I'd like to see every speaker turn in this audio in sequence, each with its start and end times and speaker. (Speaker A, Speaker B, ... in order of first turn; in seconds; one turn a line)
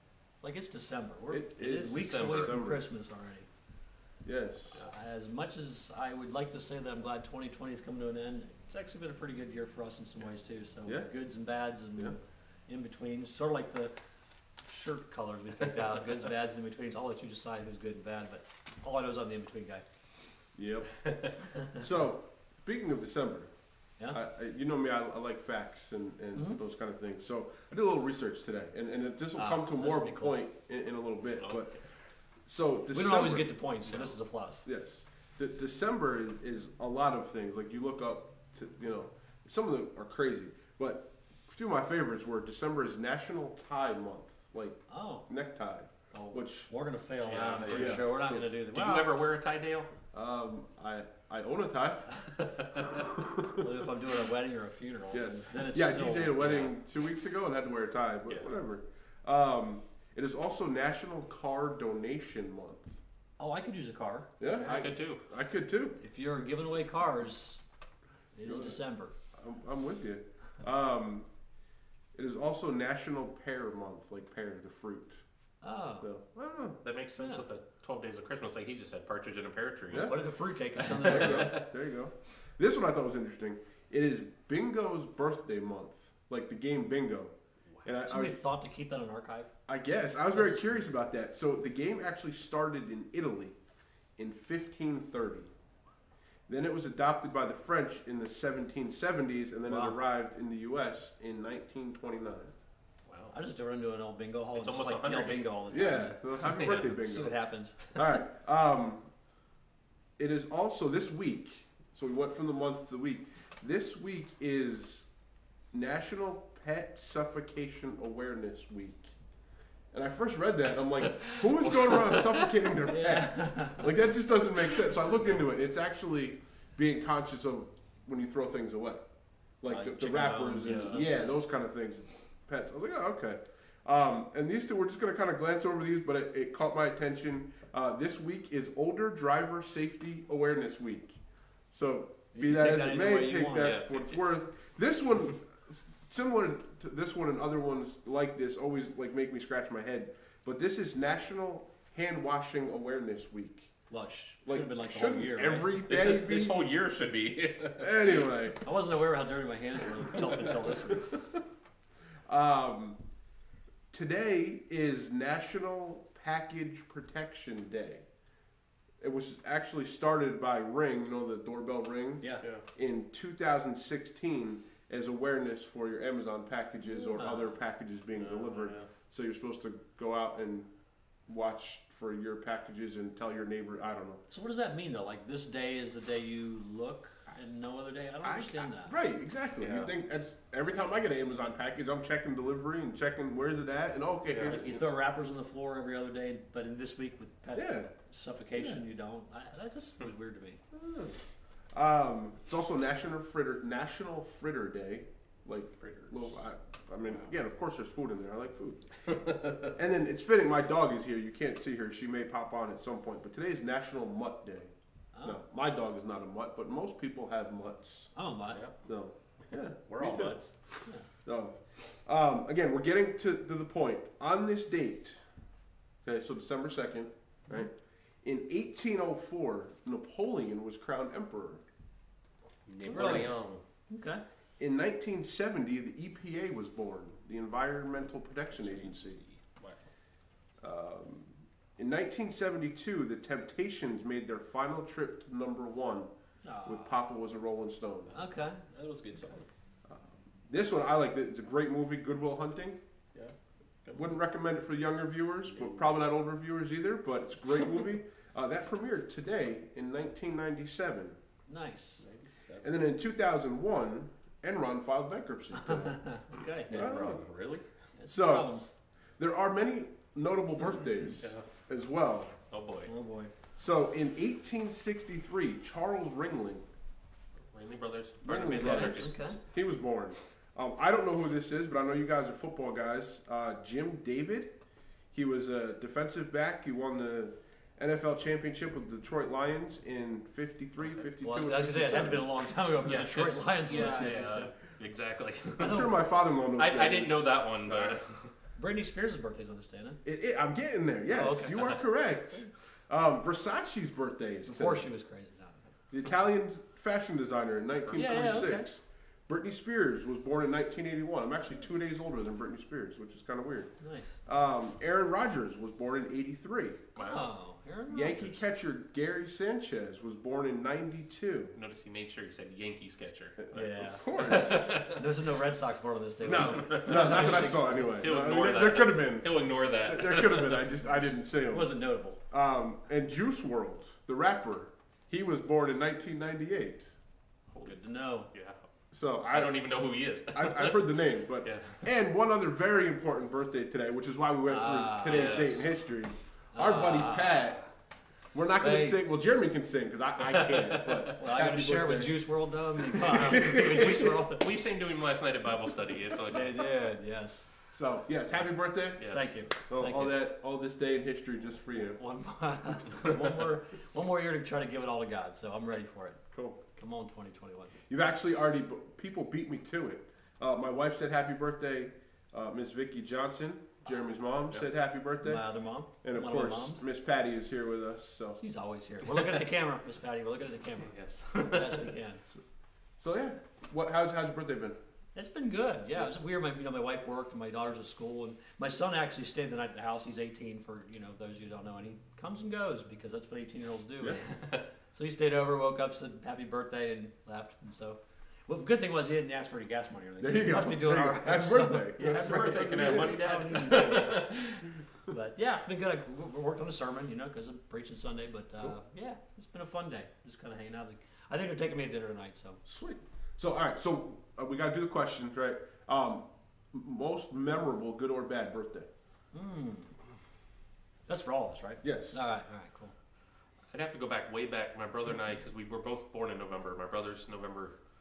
Speaker A: 0.4-3.5
Speaker B: 1.3-2.8
Speaker C: 1.8-2.5
Speaker B: 4.2-4.9
Speaker A: 4.8-13.9
Speaker A: 14.6-19.9
Speaker B: 20.5-33.5
Speaker C: 21.0-21.3
Speaker A: 29.4-30.4
Speaker C: 31.4-31.8
Speaker A: 32.9-34.6
Speaker B: 34.6-46.7
Speaker A: 44.9-45.3
Speaker A: 46.1-49.2
Speaker C: 47.3-49.9
Speaker B: 47.5-48.5
Speaker B: 50.1-53.7
Speaker C: 52.4-52.9
Speaker A: 53.5-56.7
Speaker B: 55.1-63.0
Speaker A: 63.4-64.3
Speaker B: 64.4-66.0
Speaker C: 64.5-65.3
Speaker A: 66.0-67.6
Speaker A: 68.3-69.1
Speaker B: 68.4-68.8
Speaker B: 69.3-71.3
Speaker B: 72.1-75.2
Speaker A: 75.6-76.1
Speaker B: 76.0-76.8
Speaker C: 76.8-80.1
Speaker A: 77.2-77.4
Speaker B: 79.9-80.2
Speaker A: 79.9-81.6
Speaker C: 80.8-81.7
Speaker B: 81.0-88.3
Speaker A: 88.0-89.5
Speaker B: 89.7-93.6
Speaker A: 90.3-90.7
Speaker B: 94.2-95.5
Speaker B: 96.5-102.5
Speaker A: 99.7-100.0
Speaker C: 103.1-103.3
Speaker A: 103.3-108.1
Speaker C: 104.5-105.5
Speaker B: 105.7-109.1
Speaker C: 106.4-106.8
Speaker B: 110.2-115.1
Speaker B: 115.7-119.1
Speaker B: 119.9-153.8
Speaker C: 121.2-122.5
Speaker A: 122.8-123.9
Speaker A: 129.7-131.3
Speaker C: 130.1-131.2
Speaker A: 142.3-143.7
Speaker C: 143.5-144.2
Speaker A: 153.9-155.8
Speaker B: 154.4-156.6
Speaker C: 155.9-158.2
Speaker B: 157.8-158.6
Speaker A: 158.6-161.2
Speaker B: 162.2-163.0
Speaker B: 163.9-168.1
Speaker B: 169.0-180.7
Speaker A: 176.9-177.5
Speaker C: 178.1-178.9
Speaker B: 181.3-184.2
Speaker A: 184.3-188.9
Speaker B: 188.2-194.8
Speaker C: 189.6-189.9
Speaker C: 194.3-194.6
Speaker A: 194.4-200.6
Speaker B: 197.5-197.9
Speaker B: 200.7-218.1
Speaker C: 205.8-206.4
Speaker C: 209.1-209.6
Speaker A: 215.1-215.4
Speaker A: 218.1-218.6
Speaker C: 218.5-218.8
Speaker B: 218.8-225.3
Speaker C: 219.4-220.8
Speaker B: 226.0-231.6
Speaker C: 232.7-233.6
Speaker A: 232.8-233.3
Speaker B: 232.9-233.3
Speaker A: 233.9-234.2
Speaker B: 234.6-239.2
Speaker C: 238.5-239.8
Speaker B: 240.6-246.1
Speaker A: 246.4-246.9
Speaker B: 246.6-248.2
Speaker C: 248.1-249.5
Speaker A: 248.1-248.6
Speaker B: 249.8-252.8
Speaker C: 253.1-254.1
Speaker B: 253.9-261.2
Speaker C: 255.4-255.9
Speaker A: 261.5-262.1
Speaker C: 262.0-262.8
Speaker B: 262.6-267.3
Speaker A: 265.6-266.8
Speaker C: 266.7-267.7
Speaker A: 267.9-268.7
Speaker B: 268.1-268.5
Speaker B: 269.2-272.4
Speaker C: 271.2-271.5
Speaker C: 272.5-272.9
Speaker A: 272.8-273.3
Speaker B: 273.6-276.6
Speaker C: 277.5-279.2
Speaker B: 278.2-284.6
Speaker A: 278.5-279.4
Speaker B: 285.1-292.4
Speaker A: 291.2-294.5
Speaker C: 292.8-295.9
Speaker B: 295.6-298.0
Speaker A: 295.6-295.9
Speaker C: 296.6-298.3
Speaker A: 298.6-300.0
Speaker B: 300.0-304.9
Speaker A: 301.1-301.8
Speaker A: 304.5-305.6
Speaker B: 305.9-316.9
Speaker A: 307.9-308.7
Speaker C: 308.0-308.4
Speaker A: 313.8-314.2
Speaker C: 316.9-317.3
Speaker A: 316.9-318.4
Speaker B: 317.9-321.5
Speaker C: 321.5-325.0
Speaker B: 323.4-324.7
Speaker A: 323.5-327.9
Speaker B: 326.2-336.9
Speaker C: 326.4-330.8
Speaker A: 331.5-332.2
Speaker C: 337.5-337.8
Speaker A: 337.6-338.3
Speaker C: 338.3-338.6
Speaker B: 338.9-339.6
Speaker C: 339.3-341.9
Speaker B: 340.3-347.7
Speaker A: 344.5-345.6
Speaker C: 345.0-345.7
Speaker A: 346.5-347.6
Speaker B: 348.3-352.2
Speaker A: 348.6-349.0
Speaker C: 350.3-351.0
Speaker A: 351.2-354.5
Speaker B: 352.8-354.1
Speaker C: 353.6-356.5
Speaker A: 356.3-357.5
Speaker B: 357.7-362.0
Speaker C: 359.0-359.3
Speaker A: 359.1-360.1
Speaker A: 361.8-367.8
Speaker C: 362.9-363.5
Speaker B: 366.3-366.6
Speaker B: 367.9-375.5
Speaker A: 375.2-376.8
Speaker B: 376.0-378.4
Speaker A: 378.4-382.2
Speaker C: 380.9-381.9
Speaker B: 383.0-384.8
Speaker A: 385.1-412.6
Speaker B: 400.2-403.9
Speaker C: 402.0-404.6
Speaker B: 412.6-418.9
Speaker A: 419.3-420.0
Speaker A: 421.1-422.9
Speaker B: 421.8-422.2
Speaker C: 423.7-427.8